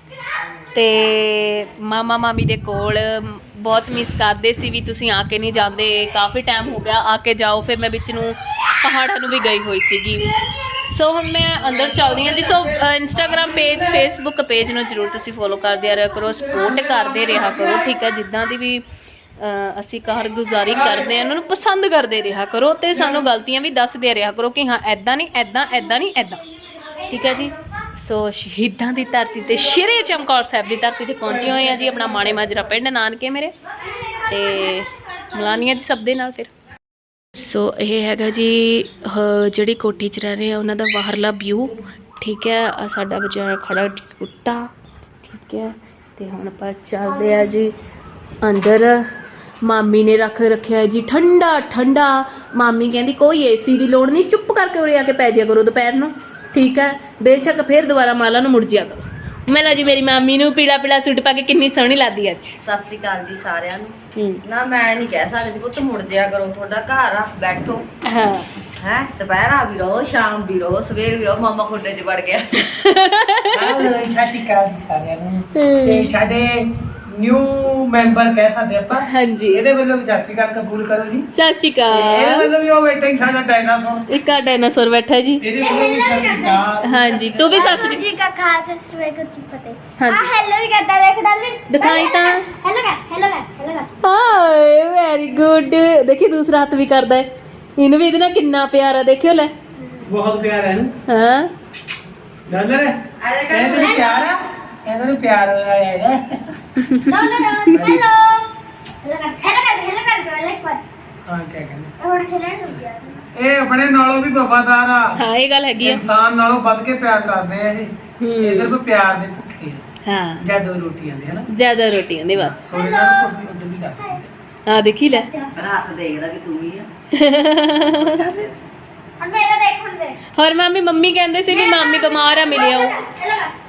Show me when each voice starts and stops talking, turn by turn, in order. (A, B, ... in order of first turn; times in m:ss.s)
0:00.7-0:10.4 A
0:10.9-0:18.8 A
0:11.6-0:14.0 B
0:16.4-0:17.8 B
0:19.4-0:26.4 A
0:20.7-0:21.2 B
0:22.9-0:23.2 B
0:27.1-0:33.5 A
0:31.3-0:32.5 B
0:34.2-0:36.5 A
0:37.4-0:44.7 A
0:45.2-0:47.7 A
0:48.4-0:49.0 A
0:49.6-1:02.6 A
1:02.6-1:07.8 C
1:04.1-1:04.4 A
1:08.0-1:08.5 A
1:08.8-1:12.6 C
1:12.6-1:13.8 A
1:13.5-1:21.3 B
1:15.6-1:16.1 A
1:19.0-1:19.6 A
1:21.3-1:22.5 A
1:21.9-1:24.1 B
1:24.1-1:25.4 A
1:25.4-1:27.8 B
1:25.6-1:26.6 D
1:26.8-1:28.0 A
1:27.3-1:33.9 D
1:30.0-1:30.3 A
1:31.7-1:32.4 A
1:34.0-1:39.5 A
1:40.0-1:40.9 B
1:41.1-1:41.5 A
1:42.5-1:43.0 B
1:43.2-1:44.2 C
1:43.5-1:46.5 B
1:43.7-1:44.3 D
1:46.8-1:47.2 A
1:47.0-1:48.5 D
1:47.7-1:48.0 B
1:49.0-1:50.8 D
1:51.2-1:51.9 B
1:52.0-1:53.2 D
1:53.3-1:55.1 B
1:55.1-1:56.0 A
1:55.8-1:59.8 B
1:58.2-1:58.8 A
2:00.0-2:00.5 A
2:00.4-2:01.4 B
2:01.5-2:02.6 A
2:02.3-2:04.3 B
2:02.7-2:03.3 D
2:04.7-2:05.3 A
2:05.0-2:05.5 D
2:05.5-2:06.9 C
2:07.1-2:08.2 A
2:07.8-2:08.6 C
2:09.2-2:10.2 D
2:10.3-2:13.0 A
2:11.5-2:13.5 D